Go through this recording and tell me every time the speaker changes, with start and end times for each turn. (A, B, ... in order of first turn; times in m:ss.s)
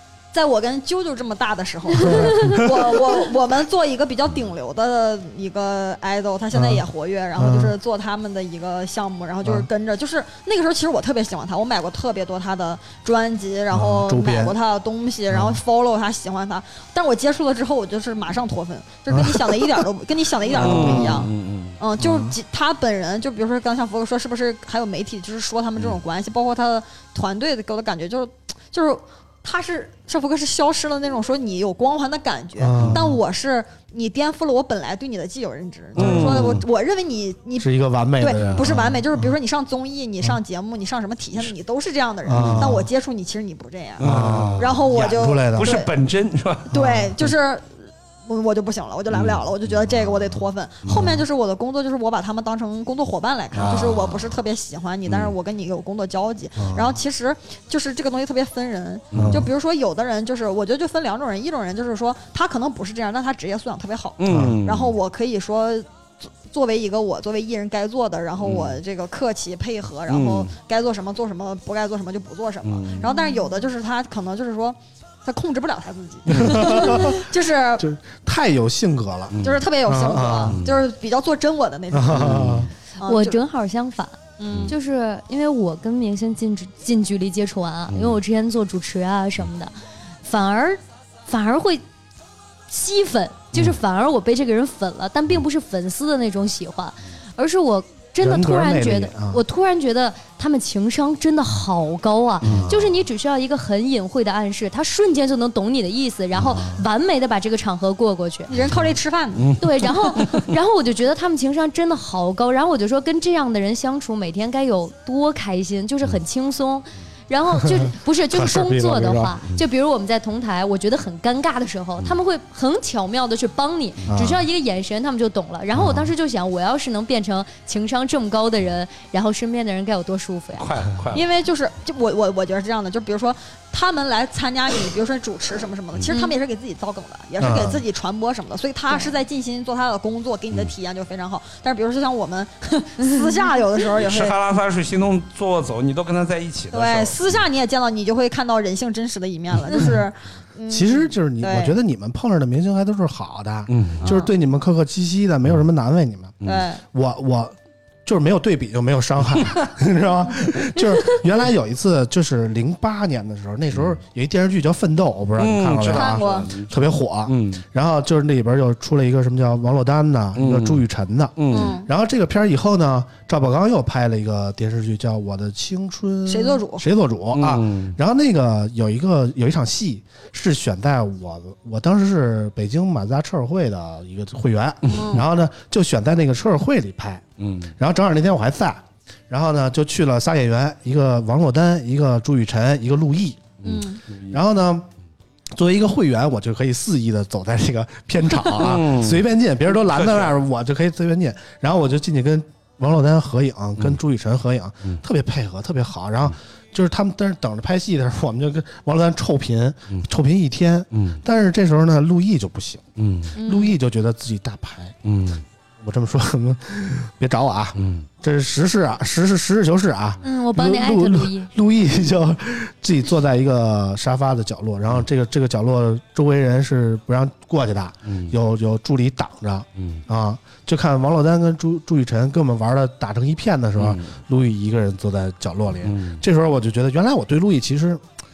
0:00.3-0:45.9 A
0:02.1-0:02.9 B
0:06.5-0:07.7 B
0:13.7-0:14.6 B
0:15.3-0:15.6 B
0:19.1-0:19.8 B
0:20.5-0:21.8 C
0:20.5-0:21.3 B
0:22.0-0:22.4 B
0:32.6-0:33.2 B
0:32.8-0:33.1 C
0:36.0-0:36.7 C
0:36.0-0:36.6 B
0:37.6-0:39.4 B
0:38.4-0:38.7 C
0:42.3-0:42.9 B
0:42.3-0:42.8 C
0:44.0-0:47.3 C
0:44.0-0:45.7 B
0:46.7-0:47.7 A
0:46.7-0:47.1 B
0:48.3-1:17.8 A
0:49.1-0:49.4 C
0:50.8-0:51.1 C
0:50.9-0:51.2 B
0:53.5-0:54.3 B
0:53.6-0:54.2 C
0:55.1-0:55.3 C
0:56.6-0:57.0 B
0:59.1-0:59.5 C
0:59.1-0:59.5 B
1:04.2-1:05.0 C
1:04.3-1:04.6 B
1:08.4-1:08.8 C
1:10.1-1:10.5 C
1:12.6-1:13.1 C
1:13.0-1:13.4 D
1:16.3-1:19.3 B
1:16.3-1:16.7 C
1:19.3-1:19.7 C
1:19.4-1:23.4 A
1:19.8-1:20.6 B
1:20.5-1:20.8 C
1:21.9-1:22.7 B
1:22.1-1:22.7 C
1:23.0-1:24.2 D
1:24.4-1:24.8 A
1:24.4-1:24.7 C
1:24.7-1:29.7 D
1:27.9-1:28.2 C
1:30.2-1:31.8 D
1:32.7-1:48.5 D
1:38.2-1:39.4 B
1:42.4-1:43.0 B
1:42.4-1:42.7 C
1:46.4-1:46.9 B
1:48.5-1:49.9 A
1:48.6-1:50.5 C
1:49.6-2:10.7 D
1:57.6-1:59.4 B
2:04.1-2:04.4 B
2:05.7-2:06.1 B
2:10.6-2:11.3 C
2:11.1-2:24.4 A
2:16.1-2:16.4 D
2:17.4-2:17.8 B
2:18.9-2:19.2 D
2:23.0-2:23.3 D
2:24.0-2:27.4 C
2:26.7-2:31.8 A
2:30.7-2:36.4 B
2:33.7-2:34.1 C
2:34.0-2:34.3 A
2:36.4-2:36.7 C
2:36.4-2:36.8 A
2:36.9-3:07.2 B
2:43.7-2:44.0 C
2:45.4-2:47.6 C
2:45.9-2:46.5 A
2:50.4-2:50.8 C
2:51.4-2:51.8 C
2:51.5-2:51.9 A
2:56.3-2:56.8 A
2:57.3-2:58.0 C
3:04.9-3:05.2 C
3:04.9-3:05.3 A
3:07.4-3:07.7 C
3:07.8-3:13.5 B
3:13.6-3:14.4 C
3:13.6-3:14.0 A
3:14.3-3:14.9 B
3:15.5-3:32.8 B
3:18.5-3:20.3 C
3:30.9-3:31.2 C
3:33.0-3:33.4 C
3:33.3-3:35.0 B
3:33.4-3:33.7 D
3:35.0-3:35.4 C
3:35.8-3:58.0 B
3:37.8-3:38.1 C
3:40.2-3:41.5 D
3:48.0-3:48.3 C
3:49.8-3:50.0 C
3:53.8-3:54.2 C
3:55.8-3:56.2 C